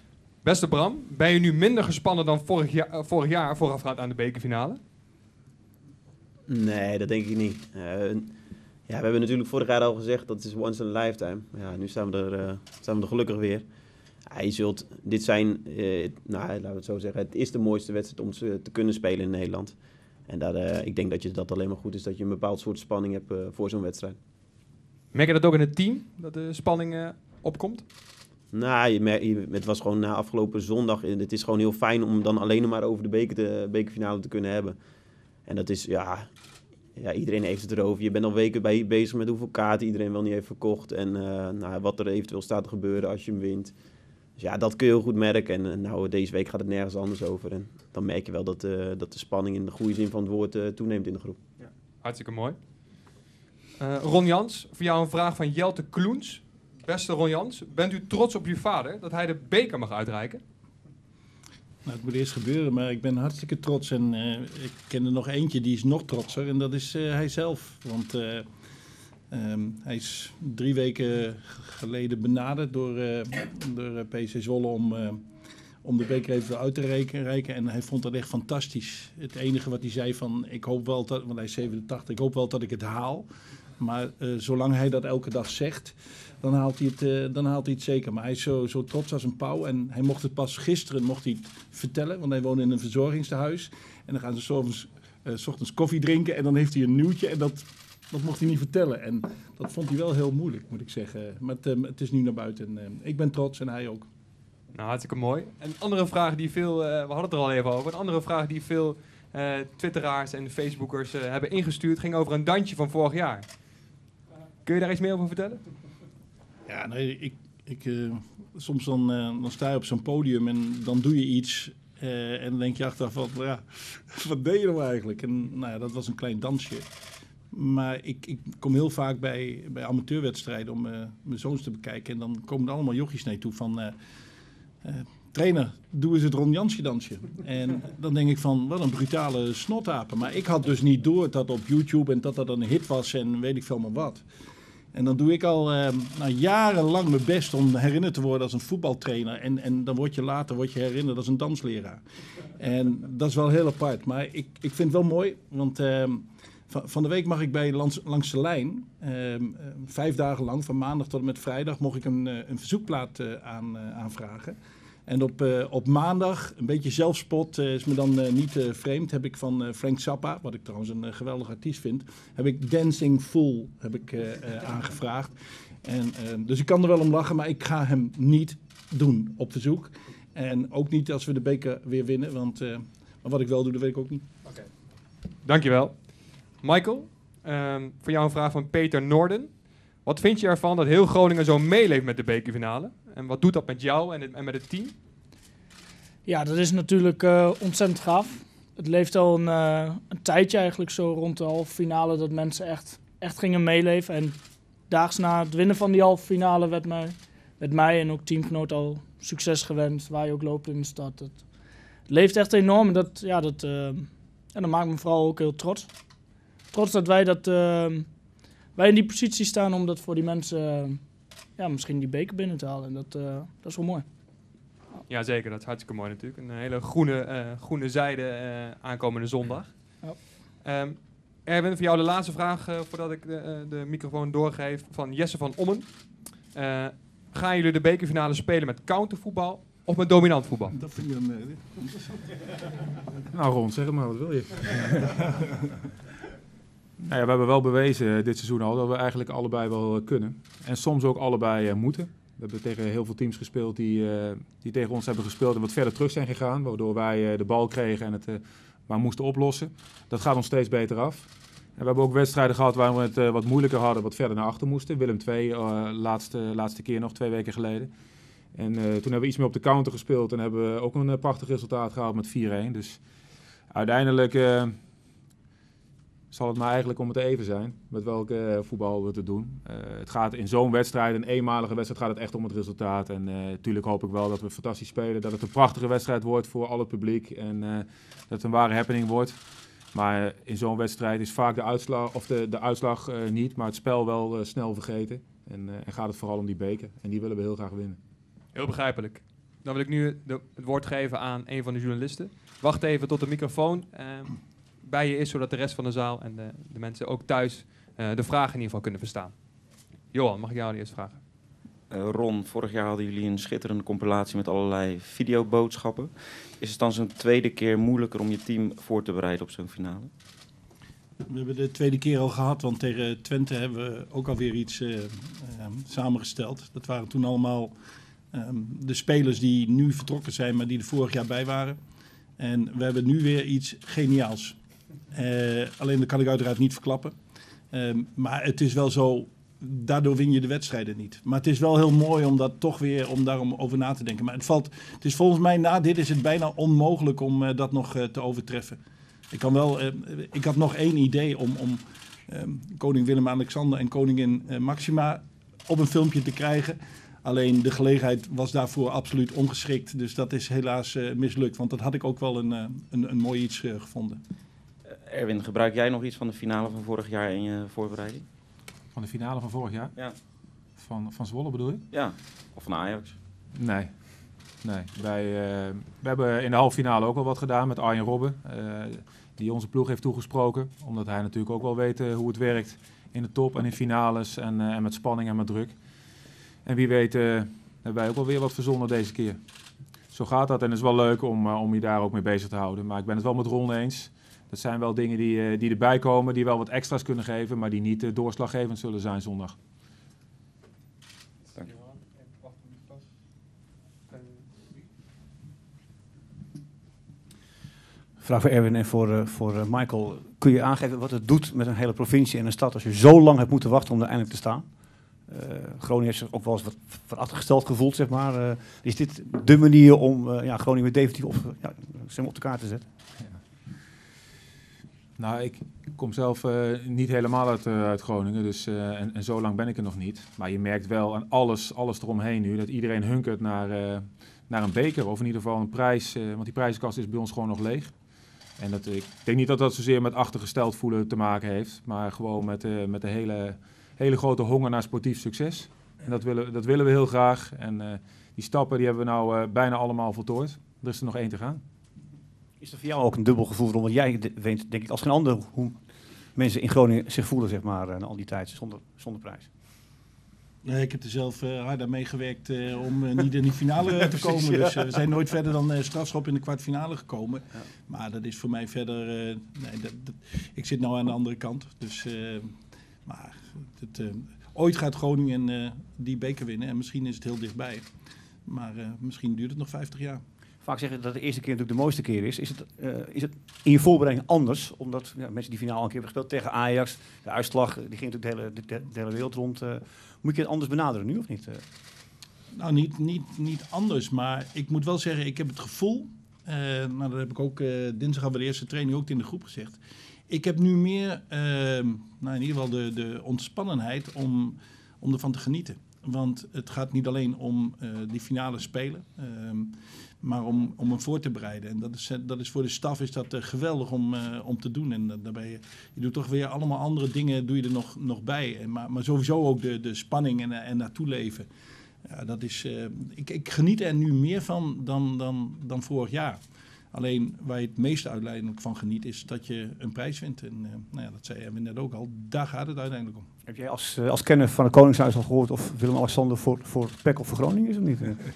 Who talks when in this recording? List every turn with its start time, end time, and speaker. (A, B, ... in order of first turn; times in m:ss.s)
0:00.4-0:04.8 A
0:06.5-0:08.3 B
0:08.9-0:13.6 B
0:14.3-0:24.2 B
0:25.1-0:27.8 A
0:28.5-0:34.8 B
0:35.4-0:36.3 B
0:37.0-0:43.7 B
0:44.4-0:51.4 B
0:52.0-0:52.6 A
0:53.8-1:00.4 A
1:01.8-1:08.4 C
1:09.3-1:15.2 C
1:15.8-1:23.2 C
1:23.8-1:44.1 C
1:44.7-1:53.5 A
1:54.6-1:55.6 A
1:56.7-2:06.9 C
2:07.5-2:14.0 C
2:14.8-2:24.2 C
2:24.9-2:32.0 C
2:32.6-2:44.6 C
2:45.1-3:04.2 C
3:05.4-3:15.0 A
3:16.2-3:24.4 D
3:24.9-3:31.5 D
3:32.1-3:35.9 D
3:36.7-3:38.1 D
3:38.8-3:41.0 D
3:41.6-3:44.0 D
3:45.1-4:00.8 A
4:00.7-4:02.4 C
4:03.3-4:05.2 E
4:07.0-4:27.9 E
4:28.5-4:33.0 E
4:33.7-4:34.8 E
4:36.3-4:49.4 E
4:49.9-4:58.0 E
4:58.5-5:09.5 A
5:10.0-5:11.2 A
5:11.9-5:20.1 F
5:21.3-5:27.7 C
5:28.3-5:31.8 C
5:32.4-5:34.6 C
5:35.1-5:37.1 C
5:37.7-5:48.8 C
5:49.3-6:04.2 C
6:04.8-6:08.2 F
6:08.9-6:09.9 E
6:10.8-6:11.8 E
6:11.9-6:13.2 F
6:13.5-6:13.9 E
6:14.6-6:25.7 E
6:26.6-6:29.4 E
6:30.1-6:39.6 E
6:48.2-6:54.6 G
6:55.3-7:02.8 G
7:05.2-7:17.9 E
7:18.6-7:31.6 E
7:32.6-7:35.8 G
7:36.4-7:39.5 G
7:40.6-7:52.5 C
7:44.1-7:44.8 G
7:53.1-7:57.8 C
7:58.4-8:00.2 C
8:00.6-8:11.6 G
8:12.6-8:19.8 C
8:20.3-8:41.5 C
8:42.1-8:46.4 C
8:46.9-8:53.2 C
8:53.5-8:58.2 G